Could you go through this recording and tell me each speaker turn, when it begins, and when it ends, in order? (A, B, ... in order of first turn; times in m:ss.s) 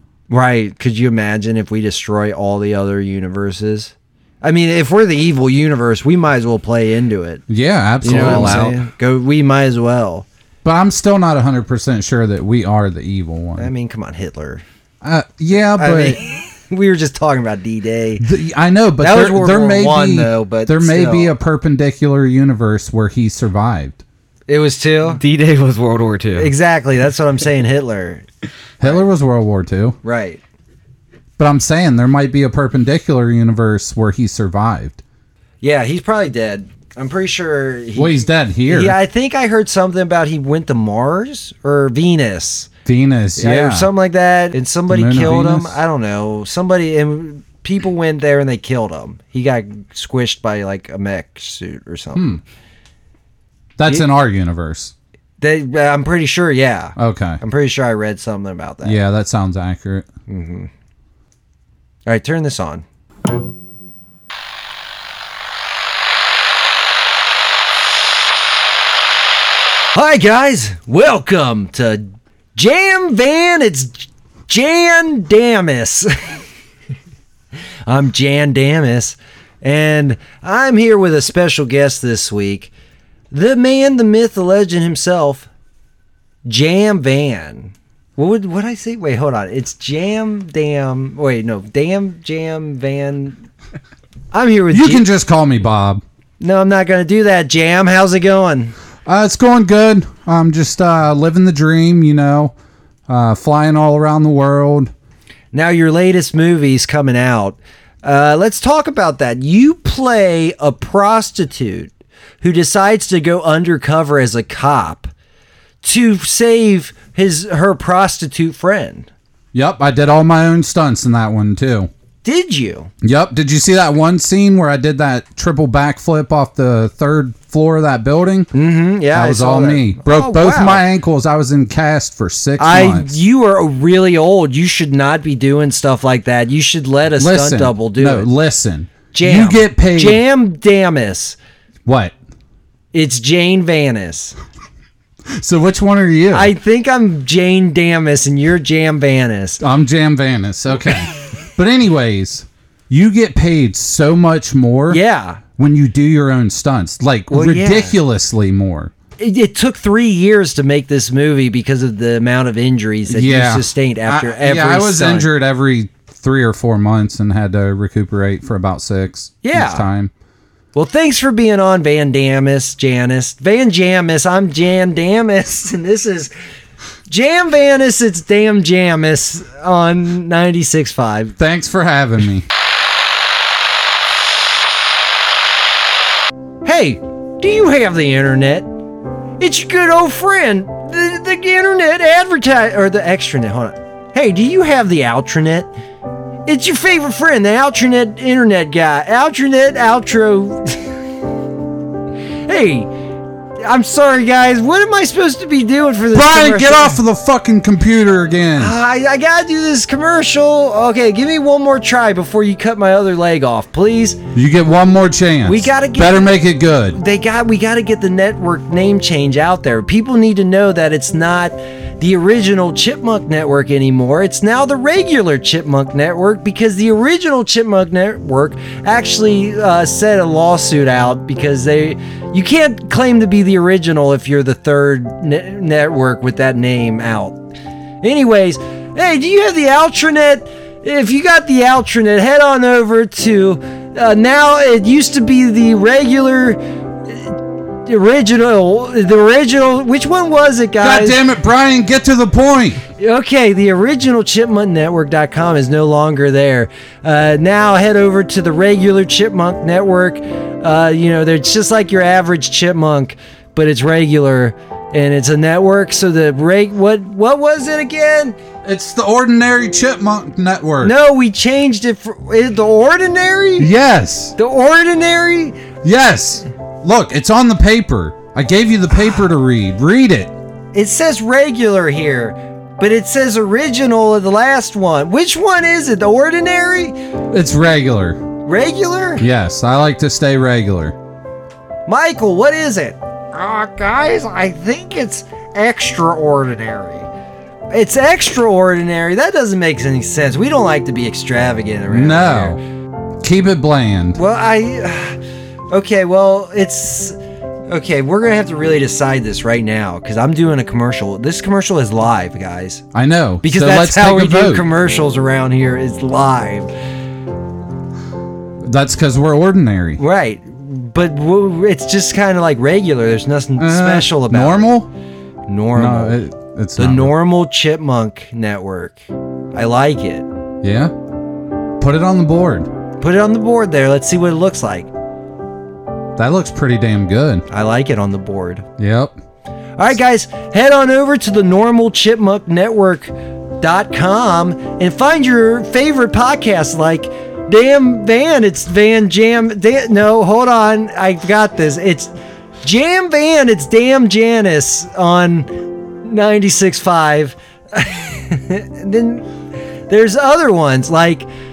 0:00.3-0:07.4 A
0:07.5-0:08.8 B
0:08.0-0:10.2 A
0:08.0-0:08.7 C
0:10.6-0:13.7 B
0:13.6-0:14.6 A
0:15.0-0:16.2 B
0:15.8-0:18.2 A
0:18.2-0:24.0 B
0:19.0-0:21.3 A
0:24.5-0:25.2 A
0:25.1-0:26.5 C
0:26.3-0:28.2 A
0:28.8-0:30.0 B
0:30.0-0:30.4 A
0:31.4-0:35.0 B
0:35.6-0:42.7 A
0:37.9-0:39.0 B
0:42.8-0:43.9 B
0:43.4-0:52.4 A
0:44.9-0:45.8 B
0:52.2-0:52.4 B
0:53.8-0:54.9 B
0:55.4-0:59.0 A
0:57.0-0:57.4 B
0:58.8-1:00.1 B
1:00.3-1:00.7 A
1:02.0-1:02.8 A
1:09.9-1:16.3 A
1:17.9-1:22.7 A
1:23.3-1:25.5 A
1:26.4-1:33.4 A
1:34.3-1:35.1 A
1:34.7-1:36.0 B
1:36.4-1:38.7 A
1:39.0-1:42.5 B
1:43.1-1:44.9 B
1:45.5-1:55.1 A
1:55.8-1:59.1 A
1:59.5-2:01.9 B
2:02.2-2:02.9 A
2:03.0-2:08.5 B
2:08.5-2:10.8 A
2:09.1-2:13.1 B
2:12.6-2:18.3 A
2:17.2-2:20.2 B
2:19.1-2:21.4 A
2:21.8-2:22.1 B
2:22.9-2:24.4 A
2:25.3-2:26.5 B
2:26.3-2:29.6 A
2:29.6-2:35.0 B
2:34.9-2:35.4 A
2:35.6-2:38.9 B
2:37.3-2:38.0 A
2:39.2-2:45.3 A
2:43.1-2:50.1 B
2:49.4-2:49.8 A
2:50.7-2:56.3 A
2:57.1-3:01.3 A
3:01.4-3:02.4 B
3:06.6-3:08.7 A
3:09.4-3:15.7 A
3:16.4-3:20.9 A
3:22.4-3:22.9 A
3:23.6-3:27.0 A
3:26.1-3:28.8 B
3:28.6-3:34.2 A
3:34.3-3:37.0 B
3:35.4-3:36.3 A
3:36.9-3:57.4 A
3:58.0-4:11.2 A
4:10.8-4:12.8 B
4:13.0-4:28.4 A
4:28.6-4:30.9 B
4:30.8-4:33.7 A
4:33.6-4:34.4 B
4:34.4-4:35.6 A
4:35.8-4:40.3 B
4:40.7-4:47.0 A
4:47.3-4:48.2 B
4:48.4-4:49.2 A
4:49.2-4:50.9 B
4:51.9-4:57.1 A
4:57.7-5:02.6 A
5:01.9-5:02.6 B
5:03.2-5:04.2 B
5:04.1-5:05.2 A
5:05.7-5:12.8 A
5:12.9-5:14.6 B
5:13.4-5:16.7 A
5:18.6-5:20.0 B
5:20.0-5:24.7 A
5:23.6-5:24.9 B
5:25.5-5:26.2 A
5:25.7-5:27.1 B
5:26.8-5:29.0 A
5:29.5-5:30.2 A
5:30.6-5:30.9 B
5:31.8-5:32.7 B
5:33.0-5:34.9 A
5:36.2-5:37.4 B
5:37.5-5:38.6 A
5:38.8-5:39.1 B
5:39.8-5:52.1 A
5:52.6-5:59.3 A
5:59.9-6:01.3 A